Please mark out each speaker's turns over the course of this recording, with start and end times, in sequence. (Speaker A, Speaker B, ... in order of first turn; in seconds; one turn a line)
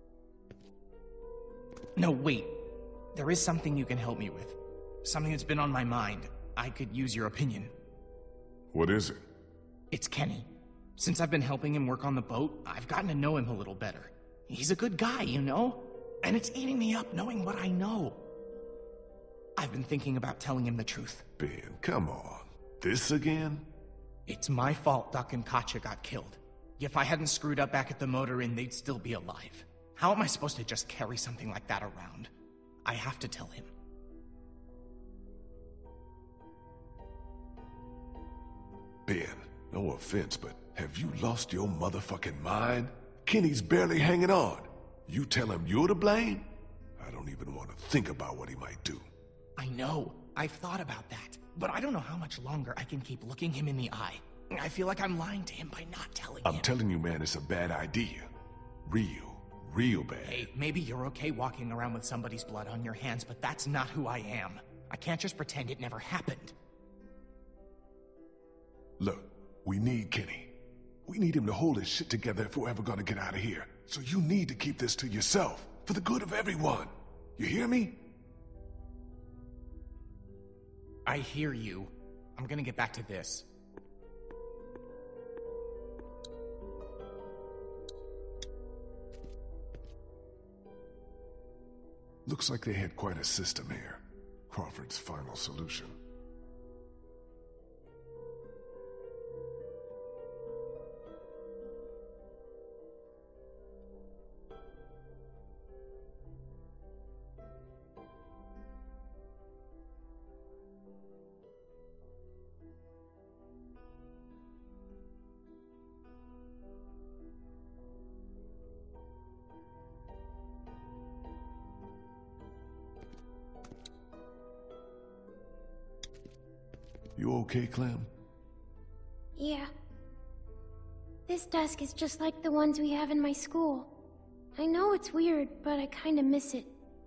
Speaker A: 1.9-2.5
Speaker A: 3.1-7.7
Speaker B: 8.7-9.2
Speaker A: 9.9-18.2
Speaker A: 19.6-21.2
Speaker B: 21.4-23.7
Speaker A: 24.3-32.3
Speaker A: 32.8-33.7
Speaker B: 39.0-49.1
Speaker A: 49.6-56.7
Speaker B: 56.4-58.3
Speaker B: 58.8-60.5
Speaker A: 60.2-66.5
Speaker B: 69.0-78.0
Speaker A: 81.0-83.4
Speaker B: 92.2-96.0
Speaker B: 127.2-128.1
Speaker C: 129.4-129.7
Speaker C: 131.3-133.9
Speaker C: 134.5-136.7